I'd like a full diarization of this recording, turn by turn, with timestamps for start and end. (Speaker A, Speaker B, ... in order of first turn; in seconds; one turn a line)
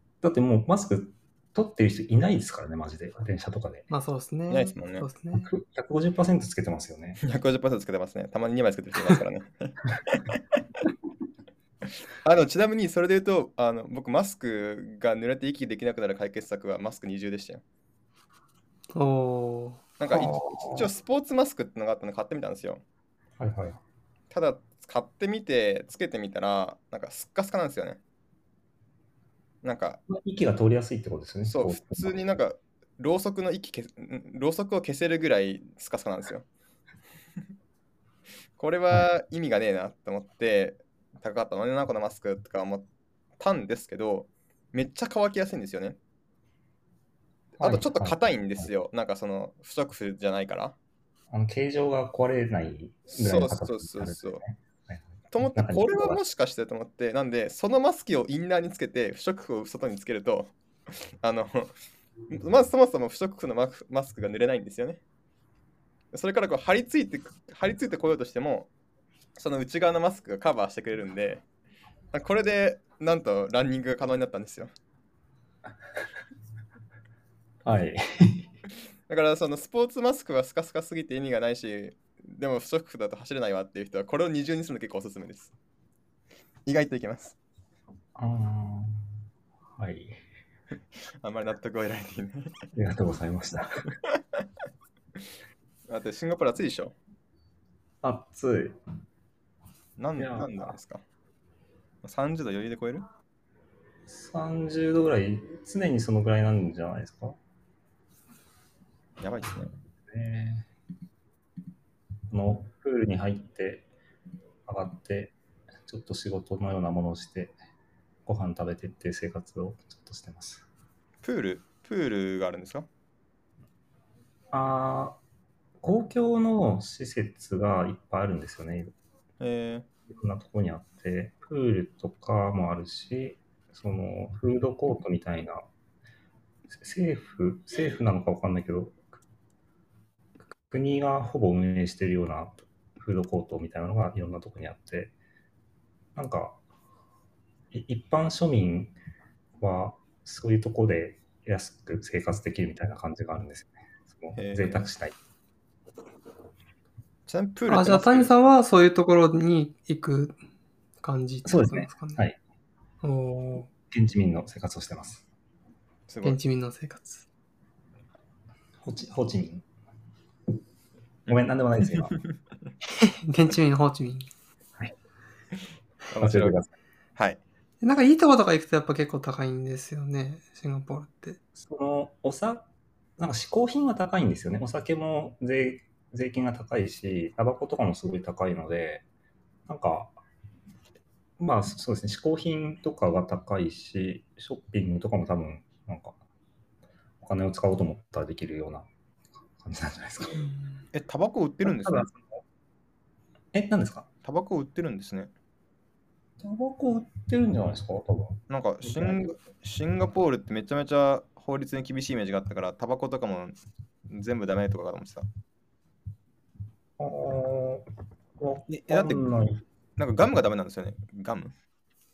Speaker A: 0.2-3.9
Speaker B: 3.9-5.5
Speaker C: 4.5-5.1
Speaker A: 5.3-7.2
Speaker C: 7.2-10.6
Speaker C: 12.2-17.6
Speaker B: 18.9-19.8
Speaker C: 20.0-22.8
Speaker A: 20.1-20.9
Speaker A: 23.4-23.8
Speaker C: 24.3-28.0
Speaker C: 29.6-30.0
Speaker A: 30.1-32.3
Speaker C: 31.5-36.5
Speaker C: 38.6-42.9
Speaker C: 43.4-46.0
Speaker A: 47.6-48.7
Speaker C: 47.6-50.8
Speaker A: 51.3-56.2
Speaker C: 53.1-54.4
Speaker C: 55.3-60.5
Speaker C: 61.2-61.7
Speaker C: 62.3-65.0
Speaker C: 66.1-68.7
Speaker C: 69.4-71.4
Speaker C: 72.1-74.7
Speaker A: 77.6-78.5
Speaker C: 79.1-85.5
Speaker C: 86.7-87.4
Speaker A: 88.2-89.1
Speaker A: 89.8-90.2
Speaker C: 91.2-92.6
Speaker A: 92.8-93.8
Speaker C: 95.9-97.0
Speaker A: 98.0-98.8
Speaker C: 100.0-101.0
Speaker A: 100.2-100.8
Speaker C: 102.0-103.1
Speaker A: 104.1-107.4
Speaker C: 109.2-109.7
Speaker A: 110.1-110.7
Speaker A: 112.3-113.9
Speaker A: 114.7-117.6
Speaker A: 118.3-120.7
Speaker C: 121.2-122.9
Speaker A: 124.5-125.2
Speaker A: 125.8-128.9
Speaker C: 129.4-129.9
Speaker A: 130.1-135.7
Speaker A: 136.7-139.0
Speaker A: 140.7-145.1
Speaker A: 146.2-146.6
Speaker A: 147.7-149.0
Speaker A: 149.6-155.2
Speaker C: 154.3-154.9
Speaker C: 157.3-158.3
Speaker B: 157.7-160.4
Speaker B: 161.0-162.2
Speaker A: 161.5-162.4
Speaker B: 163.0-163.7
Speaker A: 163.7-165.3
Speaker C: 166.1-166.4
Speaker B: 166.2-167.3
Speaker A: 168.8-169.7
Speaker A: 171.3-172.2
Speaker C: 172.1-172.4
Speaker B: 172.9-174.3
Speaker C: 176.1-176.6
Speaker A: 176.2-176.7
Speaker B: 177.8-181.4
Speaker A: 181.6-189.1
Speaker A: 189.7-190.2
Speaker A: 191.4-196.2
Speaker A: 197.2-198.9
Speaker A: 199.4-200.4
Speaker C: 200.9-202.1
Speaker A: 201.6-202.4
Speaker A: 203.5-204.1
Speaker C: 204.2-205.3
Speaker A: 206.4-209.3
Speaker C: 208.5-213.6
Speaker C: 214.1-215.3
Speaker A: 217.0-219.6
Speaker C: 218.7-219.2
Speaker C: 220.0-221.5